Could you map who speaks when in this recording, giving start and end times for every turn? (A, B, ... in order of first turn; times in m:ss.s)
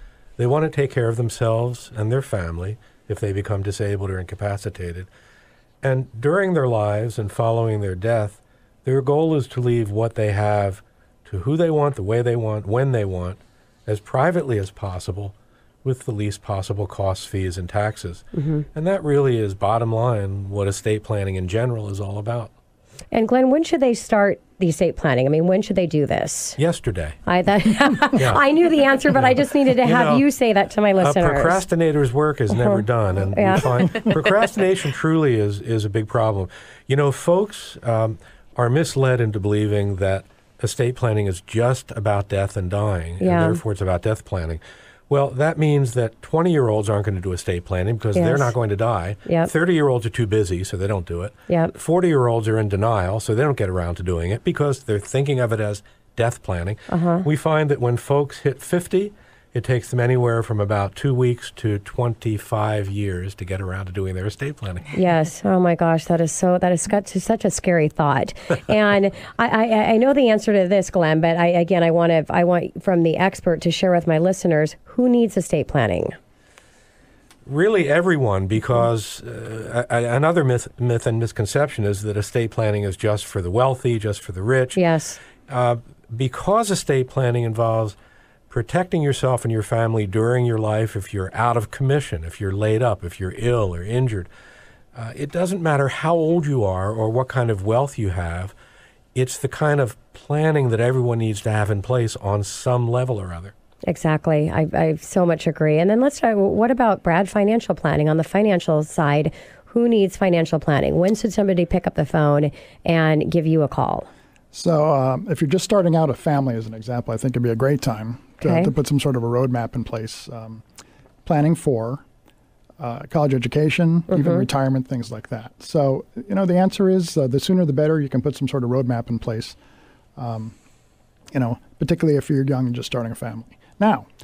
0:00.4-0:05.1 A
0:05.8-0:22.5 A
0:18.4-0:18.6 B
0:23.1-0:26.6 B
0:26.6-0:27.2 A
0:27.3-0:31.6 B
0:28.2-0:28.4 A
0:29.2-0:30.2 A
0:31.0-1:04.9 A
0:32.5-0:32.8 B
0:33.3-0:33.7 B
0:43.2-0:43.6 B
0:48.1-0:48.5 B
0:56.9-0:57.2 B
1:04.9-1:16.2 B
1:17.5-1:24.8 A
1:24.8-1:25.2 B
1:25.5-1:28.0 A
1:28.5-1:34.3 A
1:35.0-1:38.5 A
1:39.2-1:43.5 A
1:43.9-1:54.1 B
1:54.5-2:00.6 C
1:58.4-1:58.7 B
2:01.2-2:02.0 C
2:02.8-2:09.6 C
2:04.1-2:04.4 B
2:10.2-2:10.6 C
2:11.3-2:14.1 C